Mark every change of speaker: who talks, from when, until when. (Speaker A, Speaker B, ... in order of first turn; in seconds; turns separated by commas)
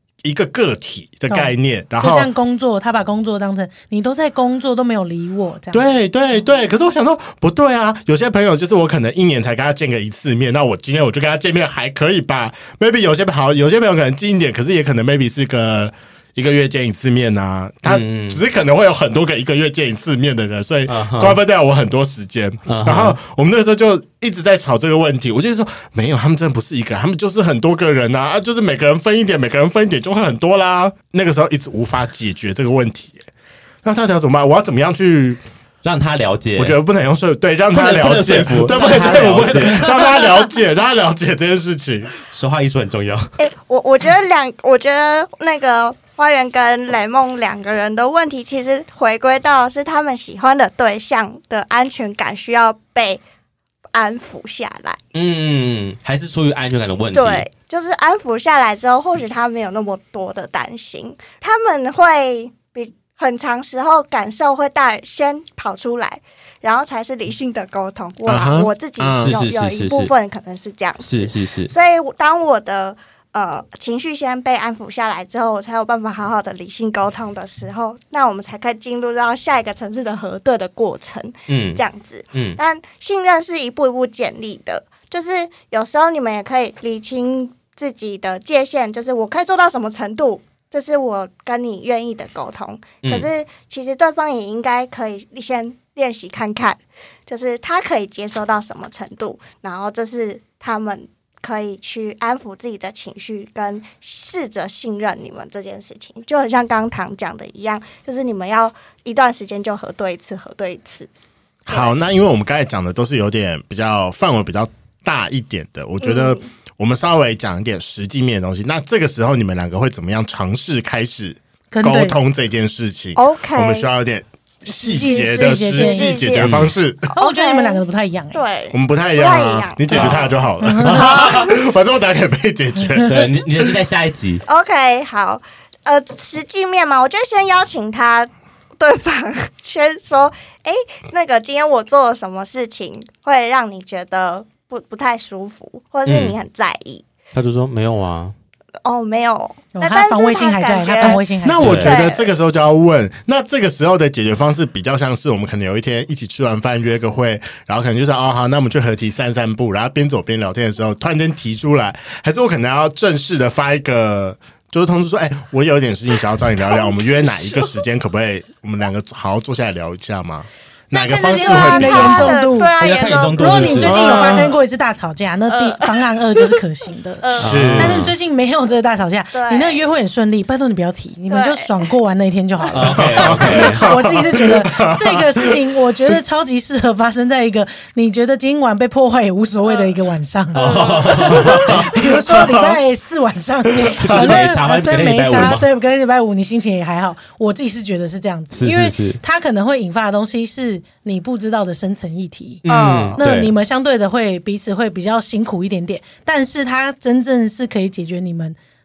Speaker A: 0.2-2.3, Speaker B: 1.3-5.8, Speaker A: 5.7-33.2, Speaker C: 17.9-18.4, Speaker C: 20.9-21.4, Speaker C: 22.7-23.2, Speaker A: 33.8-35.4, Speaker C: 35.8-36.8, Speaker A: 36.6-42.1, Speaker C: 37.7-40.2, Speaker C: 42.2-43.3, Speaker D: 43.4-53.2, Speaker D: 53.9-55.0, Speaker C: 55.1-57.5, Speaker D: 57.1-111.1, Speaker A: 68.3-69.3, Speaker C: 69.2-70.1, Speaker C: 71.0-71.7, Speaker C: 81.5-82.6, Speaker C: 93.0-93.3, Speaker A: 111.7-127.1, Speaker D: 111.7-111.9, Speaker D: 116.0-116.5, Speaker B: 121.7-122.2, Speaker D: 123.2-123.9, Speaker B: 124.7-126.4, Speaker D: 125.3-126.6, Speaker C: 126.4-126.7, Speaker D: 127.2-127.8, Speaker B: 127.2-128.4, Speaker D: 128.3-130.3, Speaker A: 128.7-133.7, Speaker C: 129.9-130.3, Speaker B: 130.6-131.1, Speaker C: 130.8-131.5, Speaker D: 131.0-131.6, Speaker B: 132.8-133.2, Speaker C: 133.1-134.4, Speaker D: 134.5-147.1, Speaker C: 146.1-146.4, Speaker C: 147.3-148.3, Speaker D: 148.8-151.2, Speaker B: 149.7-151.8, Speaker A: 151.0-172.4, Speaker C: 151.6-152.0, Speaker D: 151.8-152.3, Speaker D: 166.7-167.8, Speaker B: 170.9-202.7, Speaker D: 171.0-174.5, Speaker C: 172.8-174.1, Speaker A: 173.8-174.5, Speaker D: 175.5-176.0, Speaker D: 177.2-177.7, Speaker C: 177.4-178.1, Speaker A: 177.4-178.1, Speaker D: 179.3-179.8, Speaker D: 181.3-181.7, Speaker C: 182.7-183.9, Speaker A: 182.9-185.6, Speaker D: 189.7-189.9, Speaker D: 190.5-191.4, Speaker C: 190.5-191.9, Speaker A: 191.6-192.8, Speaker A: 193.7-194.4, Speaker C: 194.0-195.7, Speaker C: 198.5-199.2, Speaker C: 202.6-203.5, Speaker D: 202.7-203.2, Speaker B: 203.2-208.6